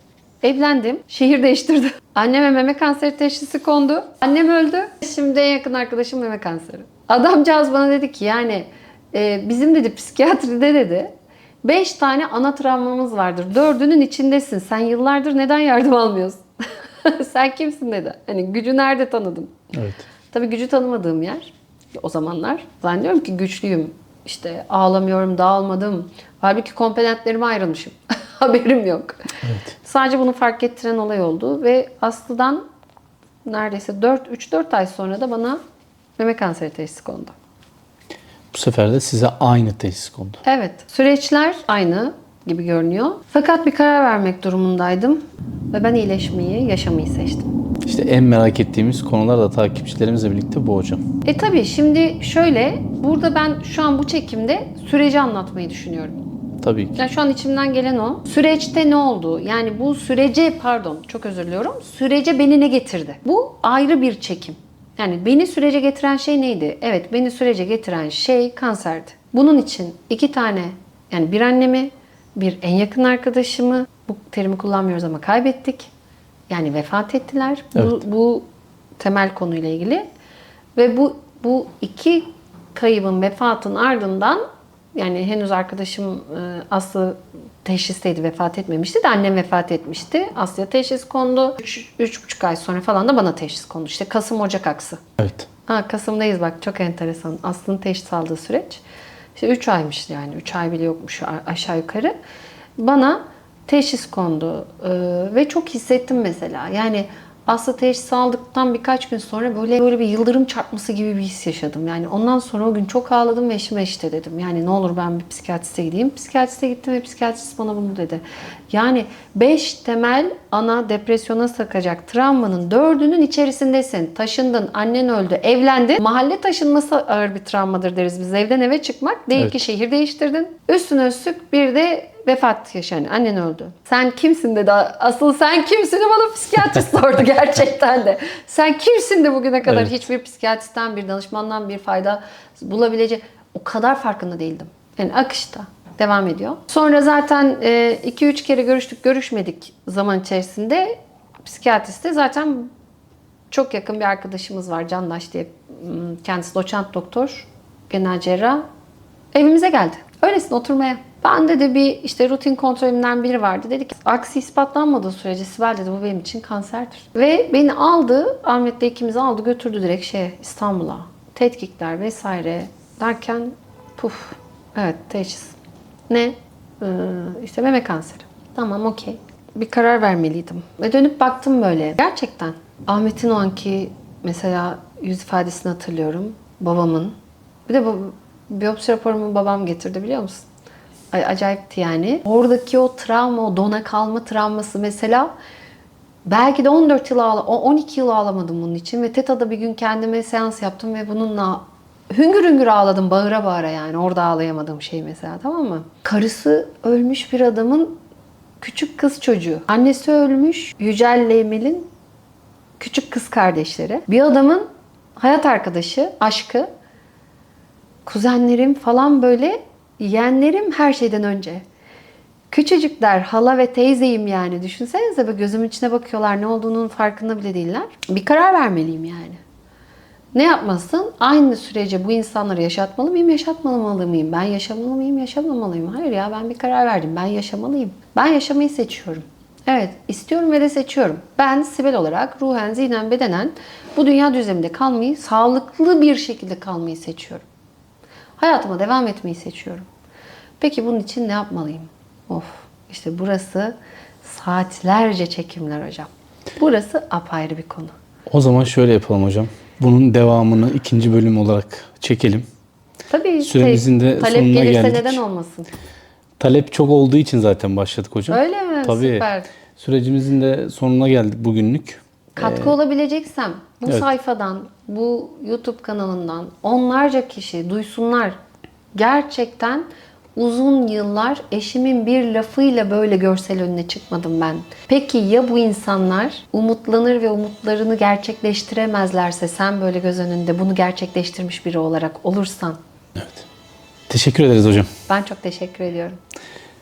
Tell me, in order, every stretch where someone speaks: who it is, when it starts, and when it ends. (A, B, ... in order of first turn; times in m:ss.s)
0:00.4-0:11.1 A
0:11.6-0:16.4 A
0:17.0-0:19.6 A
0:19.7-0:20.0 B
0:20.3-0:32.6 A
0:29.4-0:29.7 B
0:33.4-0:35.6 A
0:36.2-0:37.3 A
0:38.5-0:40.4 B
0:40.4-0:45.2 A
0:45.7-0:47.5 A
0:47.8-0:51.0 B
0:51.2-0:56.2 A
0:56.6-0:57.0 B
0:57.0-1:15.9 A
1:16.5-1:18.4 A
1:19.0-1:20.0 A
1:20.8-1:24.4 A
1:24.9-1:35.0 A
1:35.2-1:35.5 B
1:35.7-1:38.8 A
1:39.4-1:42.1 A
1:42.8-2:32.7 A
2:09.4-2:09.6 B
2:19.6-2:20.0 B
2:33.5-2:38.6 A
2:39.3-2:55.6 A
2:56.1-3:07.1 A
3:07.7-3:10.4 A
3:11.1-3:15.3 A
3:16.2-3:28.0 A
3:28.6-3:31.9 A
3:32.8-3:36.7 A
3:38.0-3:41.6 A
3:42.5-3:49.4 A
3:50.3-4:07.4 A
4:08.4-4:09.9 A
4:10.6-4:17.9 A
4:18.3-4:22.4 B
4:23.1-4:25.7 A
4:23.4-4:25.2 B
4:26.4-4:32.7 B
4:28.3-4:29.5 A
4:32.4-4:38.4 A
4:39.0-4:52.8 A
4:53.2-4:53.4 B
4:54.1-4:54.9 B
4:55.1-4:56.2 A